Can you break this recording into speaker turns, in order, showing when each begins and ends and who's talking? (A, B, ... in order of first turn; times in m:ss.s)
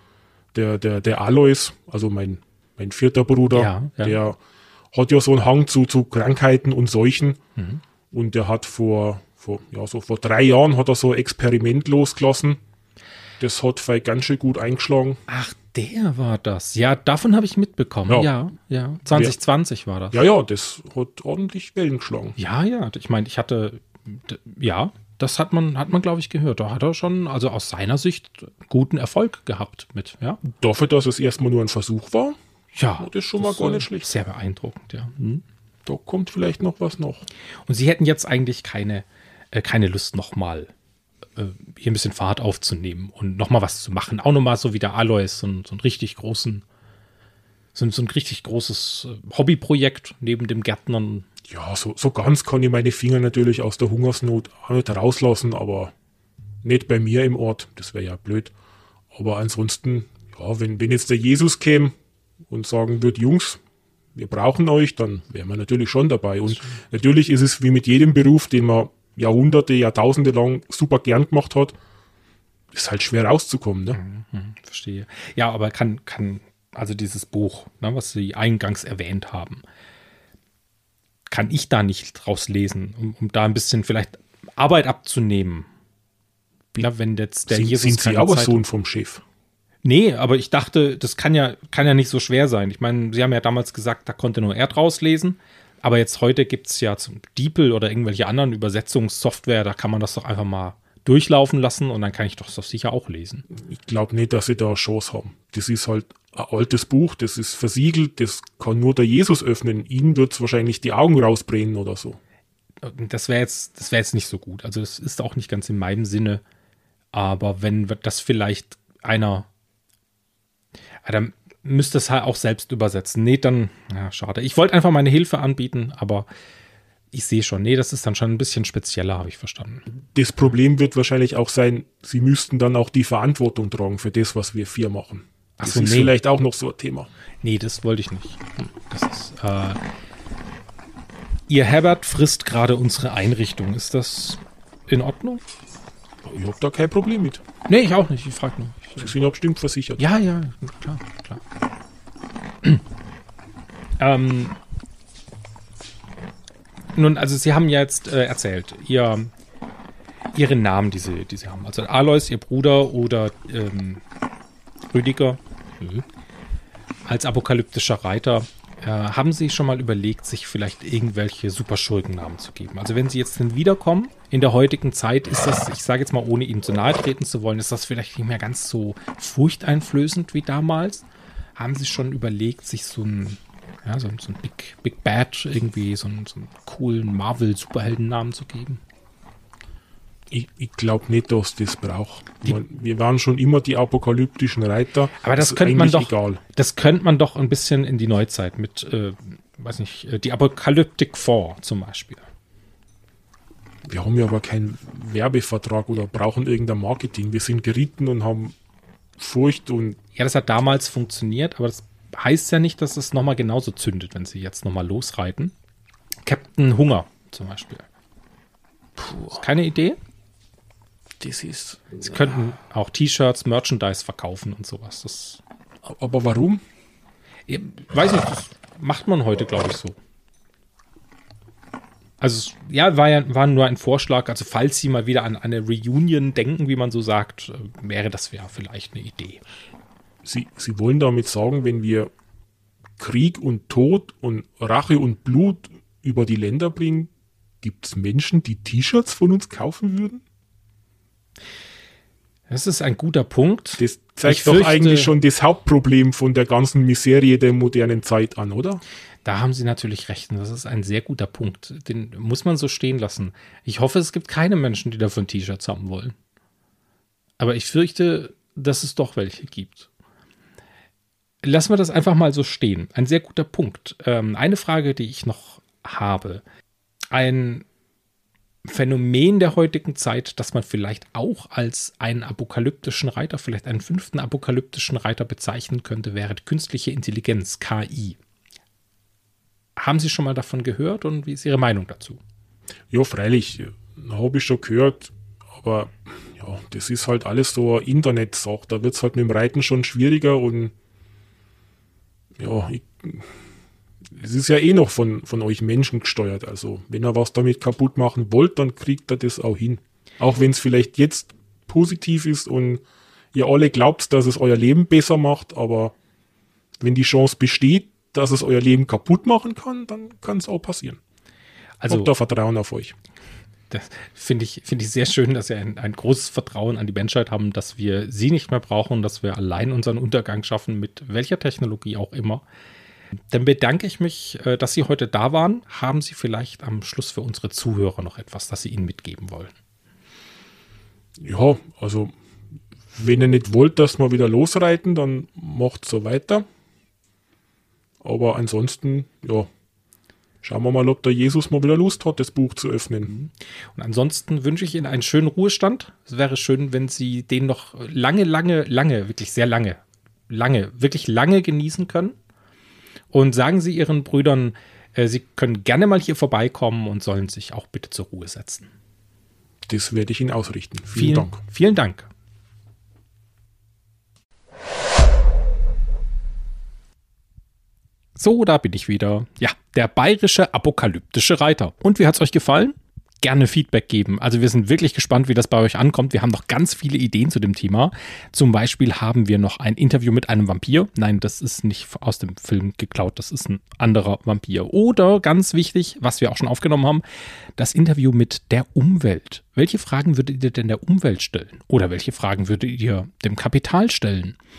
0:00.5-0:04.4 A
0:03.5-0:04.2 B
0:04.9-0:07.4 A
0:07.6-0:07.8 B
0:08.1-0:12.6 A
0:13.4-0:15.2 A
0:15.3-0:20.2 B
0:20.1-0:22.4 A
0:22.4-0:30.4 B
0:30.4-0:32.4 A
0:32.7-0:35.4 B
0:33.0-0:34.1 A
0:35.8-0:37.3 A
0:37.7-0:40.7 B
0:41.4-0:46.6 B
0:47.7-0:51.3 B
0:51.5-0:55.9 A
0:56.6-0:58.5 A
0:59.1-1:01.9 A
1:02.5-1:03.6 A
1:04.1-1:11.8 A
1:12.7-1:14.0 A
1:13.9-1:19.6 B
1:21.3-1:25.7 B
1:26.8-1:28.6 B
1:27.5-1:29.2 A
1:29.8-1:43.4 B
1:43.5-1:52.2 A
1:52.8-1:56.4 B
1:57.1-1:59.5 B
2:01.0-2:06.3 B
2:07.1-2:09.8 B
2:10.1-2:17.1 A
2:15.6-2:16.1 B
2:17.4-2:19.8 B
2:21.5-2:25.4 B
2:26.2-2:27.4 A
2:27.7-2:29.1 B
2:29.0-2:30.1 A
2:30.0-2:31.4 B
2:34.0-2:34.6 B
2:36.9-2:39.3 B
2:40.3-2:44.0 B
2:44.9-2:46.0 B
2:47.0-3:01.0 B
3:01.6-3:08.8 B
3:10.3-3:16.4 A
3:15.2-3:22.3 B
3:23.8-3:28.5 A
3:29.2-3:30.0 A
3:30.2-3:35.5 B
3:36.2-3:37.8 B
3:39.0-3:39.4 A
3:39.3-3:40.0 B
3:41.2-3:42.4 A
3:42.0-3:45.4 B
3:45.8-3:46.6 A
3:47.5-3:50.0 B
3:52.2-3:59.4 B
4:00.2-4:02.1 A
4:03.0-4:07.1 A
4:07.6-4:10.2 A
4:12.5-4:15.1 B
4:13.8-4:18.8 A
4:19.2-4:26.1 B
4:27.4-4:29.9 B
4:31.4-4:36.4 B
4:37.1-4:37.6 B
4:38.7-4:48.2 B
4:49.8-4:52.2 B
4:52.9-5:00.7 A
5:02.4-5:03.3 A
5:04.1-5:12.8 A
5:13.3-5:15.9 A
5:16.8-5:21.0 A
5:21.8-5:22.1 B
5:21.9-5:22.9 A
5:23.7-5:32.4 B
5:33.3-5:39.5 B
5:41.2-5:42.1 A
5:42.9-5:46.4 A
5:48.0-5:49.5 A
5:50.4-5:53.1 A
5:53.1-6:02.1 B
6:03.1-6:08.7 B
6:09.7-6:11.4 A
6:10.9-6:12.1 B
6:18.2-6:37.0 B
6:37.6-6:44.4 B